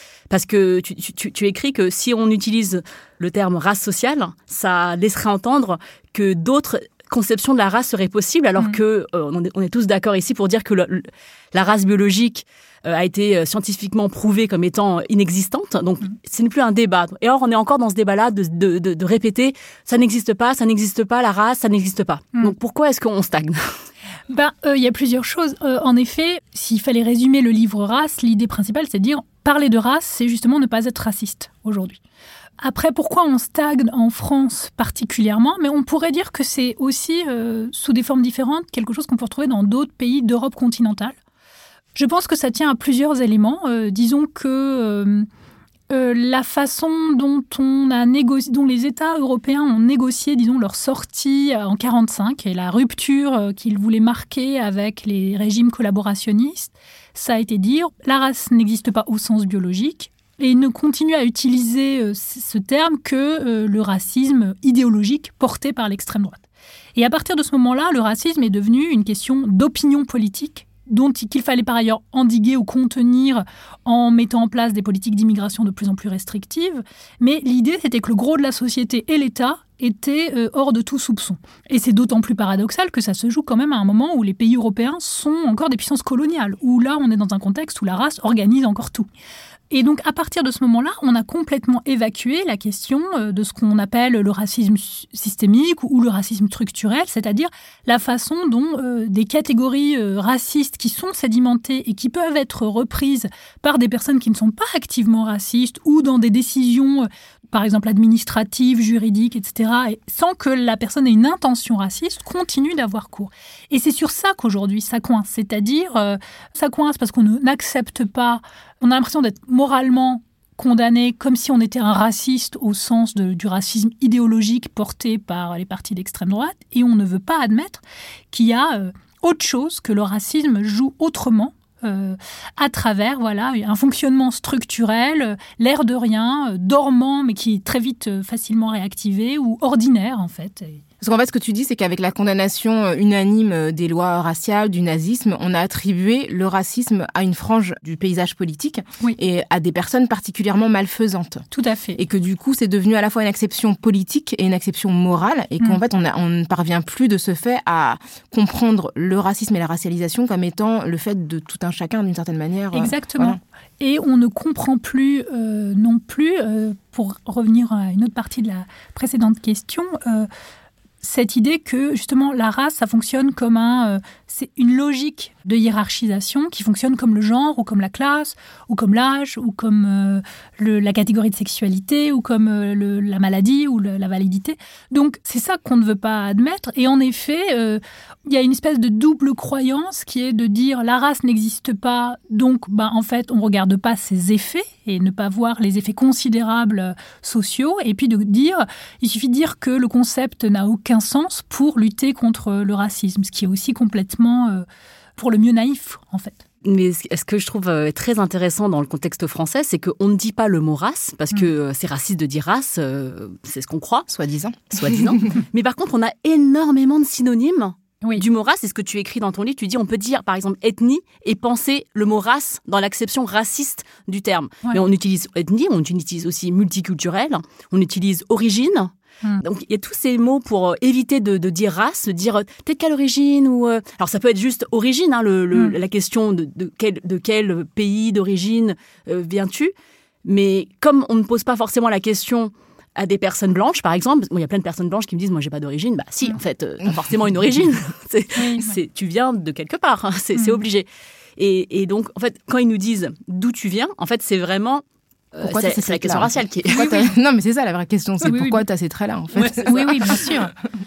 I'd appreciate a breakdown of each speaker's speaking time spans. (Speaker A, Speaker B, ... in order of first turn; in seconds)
Speaker A: 0.3-23.8, 206.7-214.1, 214.7-239.7, 240.2-250.9, 251.4-254.8, 255.3-257.1, 259.6-260.3
Speaker B: 24.3-32.0, 32.6-41.2, 42.0-45.3, 45.9-66.4, 67.0-89.1, 89.7-140.8, 151.5-152.0, 162.7-170.3, 171.0-204.7, 205.2-206.4, 248.3-248.7, 258.2-258.6, 259.6-260.5
Speaker C: 141.0-151.4, 152.0-163.4, 214.1-215.1, 255.4-260.4